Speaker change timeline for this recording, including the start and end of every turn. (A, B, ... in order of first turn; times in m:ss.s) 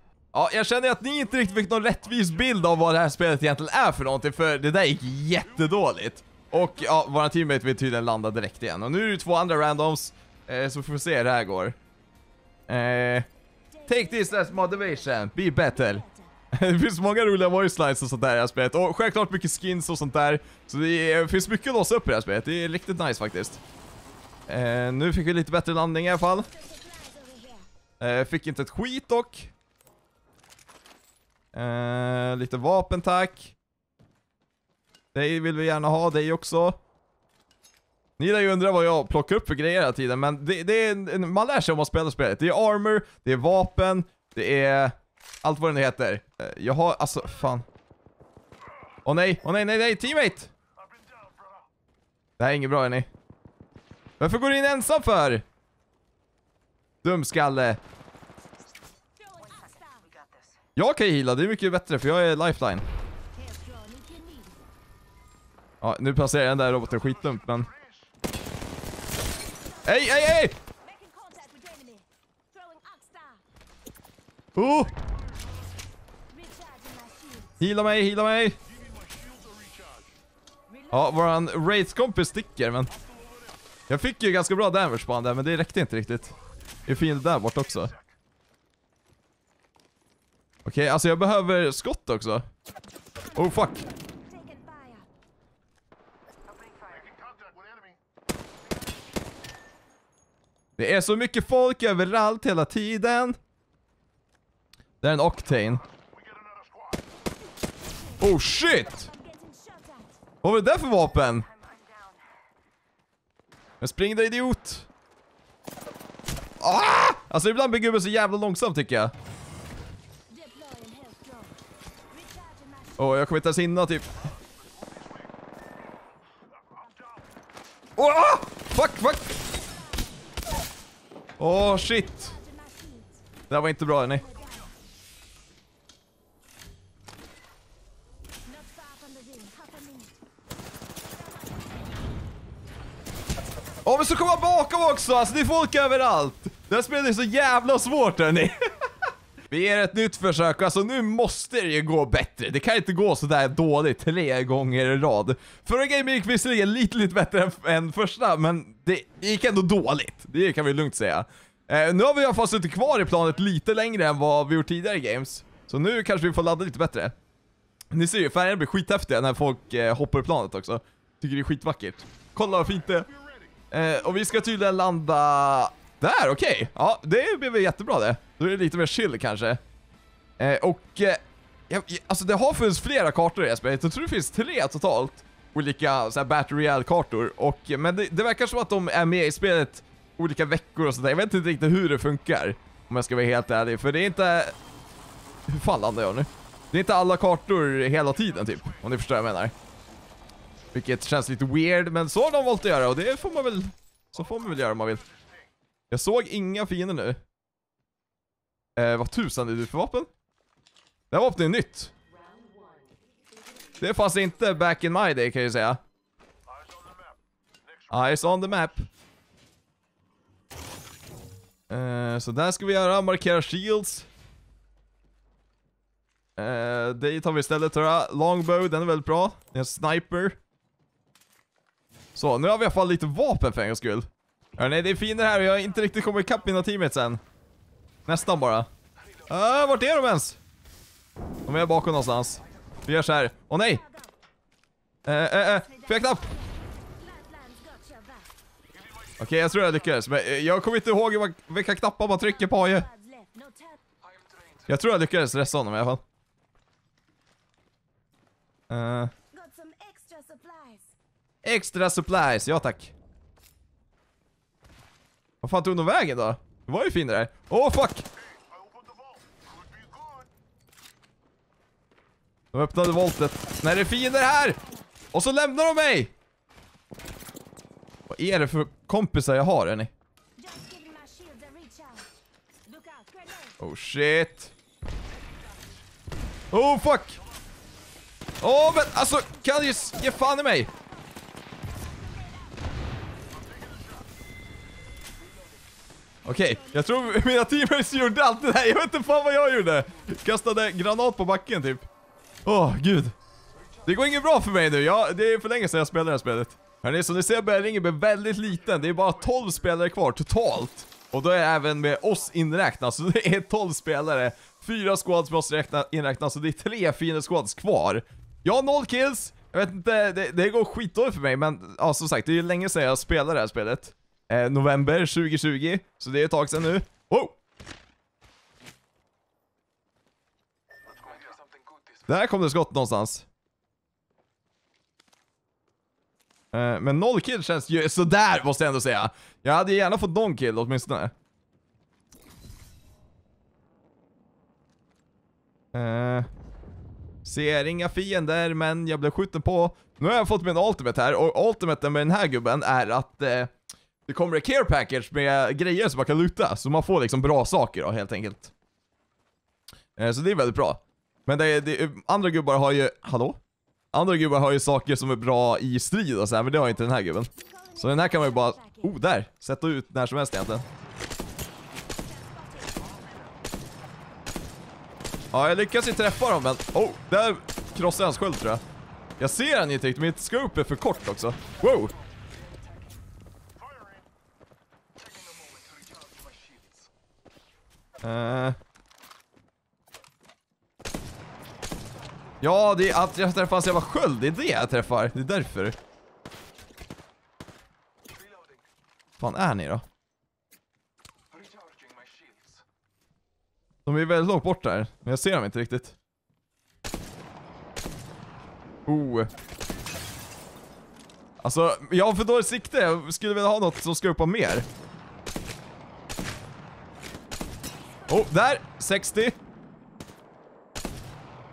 0:00.3-0:11.8 A
0:12.7-0:13.3 A
0:13.7-0:16.3 B
0:13.9-0:23.6 A
0:24.5-0:26.5 A
0:26.5-0:27.6 B
0:28.0-0:29.5 A
0:31.5-0:33.5 A
0:35.1-0:36.8 A
0:38.2-0:47.6 A
0:49.0-0:50.5 A
0:52.4-0:53.1 A
0:54.2-0:55.4 A
0:57.0-0:57.8 A
0:59.2-1:00.5 B
1:00.8-1:02.8 A
1:03.4-1:04.6 B
1:05.8-1:07.7 A
1:09.3-1:13.4 B
1:09.8-1:10.5 A
1:14.6-1:15.0 A
1:16.3-1:17.6 B
1:17.6-1:18.6 A
1:20.7-1:21.2 B
1:20.9-1:22.9 A
1:23.9-1:26.4 A
1:26.9-1:27.9 A
1:30.6-1:32.4 A
1:33.4-1:33.8 A
1:33.4-1:35.1 B
1:40.8-1:43.4 A
1:45.0-1:45.9 A
1:48.2-1:49.1 A
1:48.9-1:50.2 B
1:50.4-1:51.5 A
1:51.8-1:52.2 B
1:53.8-1:54.9 A
1:56.6-1:59.1 A
2:00.3-2:01.6 B
2:02.1-2:03.0 B
2:03.0-2:04.2 A
2:08.0-2:09.4 A
2:09.7-2:10.1 B
2:11.4-2:12.3 A
2:11.9-2:13.2 B
2:13.5-2:14.3 A
2:14.2-2:14.7 B
2:18.4-2:20.1 B
2:21.1-2:22.0 B
2:23.8-2:28.8 A
2:29.5-2:47.1 A
2:47.9-2:53.1 A
2:53.7-2:59.6 A
3:00.4-3:14.5 A
3:15.5-3:19.5 A
3:20.7-3:25.1 A
3:25.9-3:27.2 A
3:28.8-3:30.1 A
3:31.1-3:31.9 A
3:32.4-3:32.8 B
3:33.8-3:35.8 A
3:37.9-3:38.9 A
3:41.7-3:44.1 A
3:46.4-3:50.4 A
3:52.2-3:57.2 A
3:58.1-3:58.7 A
3:59.3-4:00.4 A
4:01.4-4:03.8 A
4:03.8-4:04.1 B
4:05.0-4:06.3 A
4:05.7-4:08.3 B
4:09.2-4:12.9 A
4:12.4-4:13.8 B
4:14.7-4:16.0 A
4:18.7-4:19.1 A
4:19.3-4:20.9 B
4:21.4-4:22.9 A
4:25.4-4:28.0 A
4:32.5-4:34.6 A
4:34.4-4:34.9 B
4:35.1-4:36.1 A
4:38.1-4:39.9 A
4:40.4-4:42.1 B
4:42.6-4:43.6 B
4:43.6-4:44.5 A
4:46.5-4:47.2 A
4:48.4-4:50.7 A
4:49.3-4:51.1 B
4:51.7-4:52.6 B
4:56.2-5:01.8 A
4:56.4-4:57.4 B
5:02.4-5:03.1 A
5:03.8-5:27.4 A
5:32.1-5:33.2 A
5:36.5-5:41.1 A
5:45.7-5:46.3 A
5:47.2-5:53.5 A
5:54.1-5:58.5 A
6:00.0-6:03.4 A
6:03.9-6:10.6 A
6:07.4-6:08.9 B
6:12.0-6:13.2 B
6:15.3-6:18.6 A
6:19.2-6:21.9 A
6:28.0-6:28.6 A
6:32.4-6:35.8 A
6:39.2-6:39.8 A
6:43.8-6:46.0 A
6:48.8-6:49.3 A
6:51.4-6:54.6 A
6:58.1-6:59.4 A